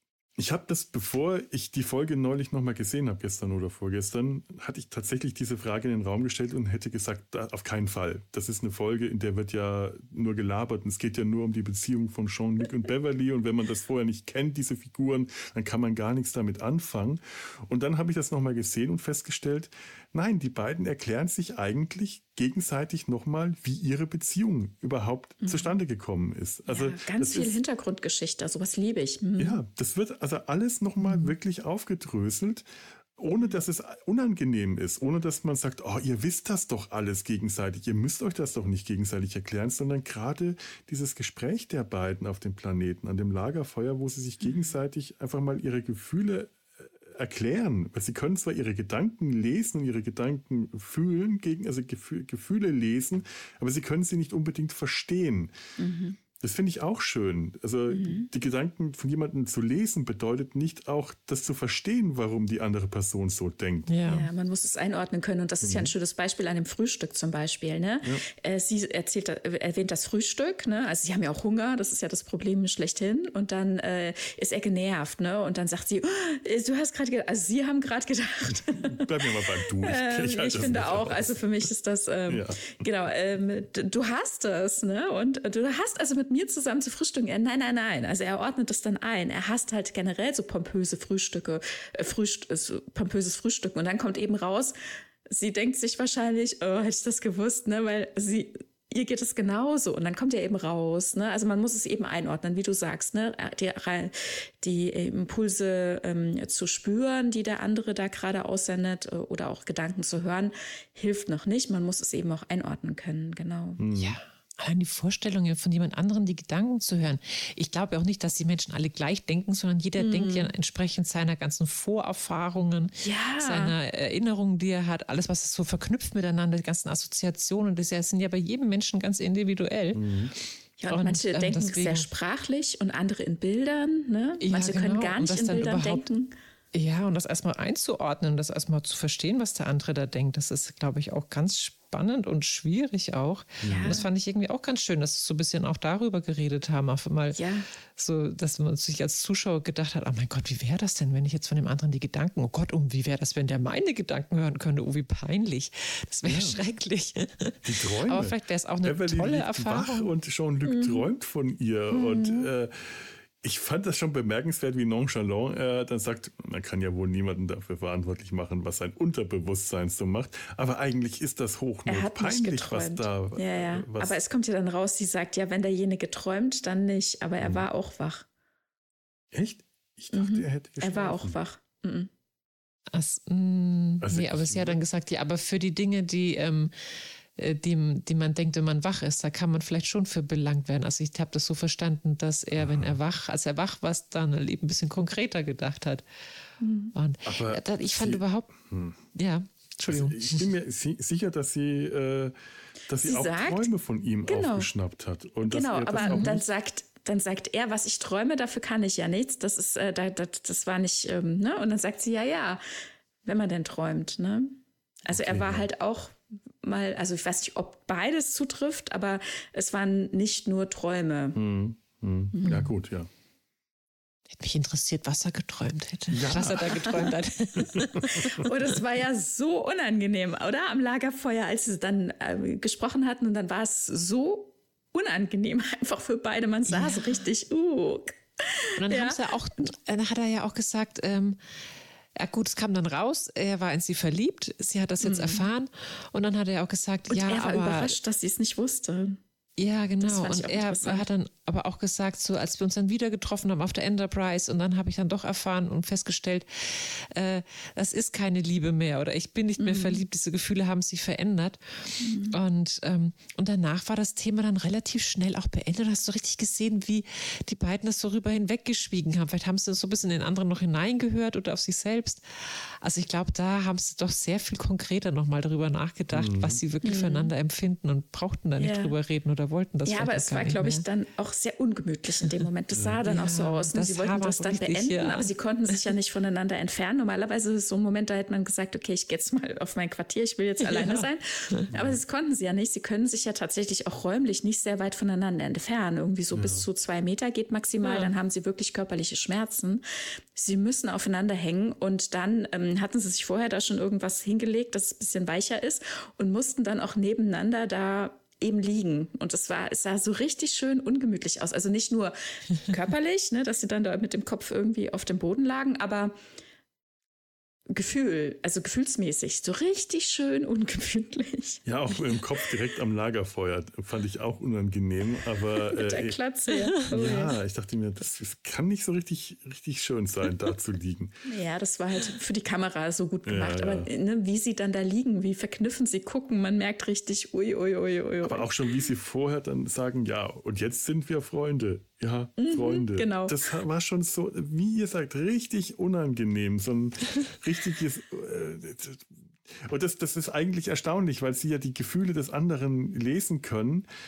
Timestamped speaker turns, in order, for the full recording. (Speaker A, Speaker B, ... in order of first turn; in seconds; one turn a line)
Speaker A: 0.4-27.6
Speaker B: 25.4-25.7
Speaker B: 26.7-29.6
Speaker A: 29.4-55.5
Speaker B: 44.4-44.7
Speaker B: 55.8-56.2
Speaker A: 56.4-63.9
Speaker B: 57.9-58.3
Speaker C: 63.9-64.3
Speaker B: 64.1-94.8
Speaker A: 65.6-65.9
Speaker A: 78.5-81.4
Speaker A: 82.3-82.8
Speaker B: 95.3-113.8
Speaker A: 113.8-114.2
Speaker C: 114.0-130.1
Speaker B: 120.0-120.5
Speaker B: 123.0-123.7
Speaker A: 129.9-130.3
Speaker B: 130.8-136.3
Speaker C: 130.9-132.1
Speaker C: 134.4-136.1
Speaker C: 136.7-147.4
Speaker A: 143.6-144.0
Speaker B: 143.7-144.1
Speaker B: 147.3-147.7
Speaker C: 148.0-160.1
Speaker A: 156.2-156.6
Speaker A: 157.6-174.2
Speaker B: 160.7-161.0
Speaker B: 161.9-162.5
Speaker B: 171.9-178.3
Speaker A: 179.3-181.4
Speaker B: 180.1-182.1
Speaker C: 182.9-186.7
Speaker A: 184.0-184.8
Speaker C: 187.4-196.0
Speaker A: 192.5-193.0
Speaker B: 196.6-196.9
Speaker C: 196.9-200.5
Speaker A: 197.2-199.0
Speaker A: 199.9-202.3
Speaker A: 202.9-206.5
Speaker B: 203.0-203.7
Speaker B: 204.3-204.7
Speaker B: 205.5-212.6
Speaker C: 206.0-206.4
Speaker B: 213.2-221.4
Speaker A: 215.1-215.7
Speaker A: 221.3-223.1
Speaker B: 222.3-222.7
Speaker C: 224.3-228.4
Speaker A: 226.1-227.1
Speaker B: 226.7-227.1
Speaker A: 227.6-228.3
Speaker B: 228.1-239.2
Speaker C: 236.7-237.2
Speaker C: 238.8-241.4
Speaker C: 242.2-248.0
Speaker B: 245.0-245.5
Speaker B: 247.1-249.2
Speaker C: 249.6-280.8
Speaker B: 250.0-251.1
Speaker B: 259.6-260.0
Speaker B: 262.0-262.4
Speaker A: 276.1-276.6
Speaker B: 276.8-277.3
Speaker B: 278.6-278.9
Speaker B: 279.9-299.8
Speaker A: 282.7-283.0
Speaker C: 283.1-285.3
Speaker C: 290.6-291.1
Speaker A: 291.7-292.0
Speaker A: 296.3-296.7
Speaker C: 297.8-298.1
Speaker B: 300.4-316.1
Speaker B: 317.7-322.5
Speaker A: 321.7-326.2
Speaker B: 325.6-327.3
Speaker A: 326.8-331.2
Speaker B: 331.2-338.6
Speaker A: 333.3-333.9
Speaker A: 338.2-353.9
Speaker B: 342.4-343.5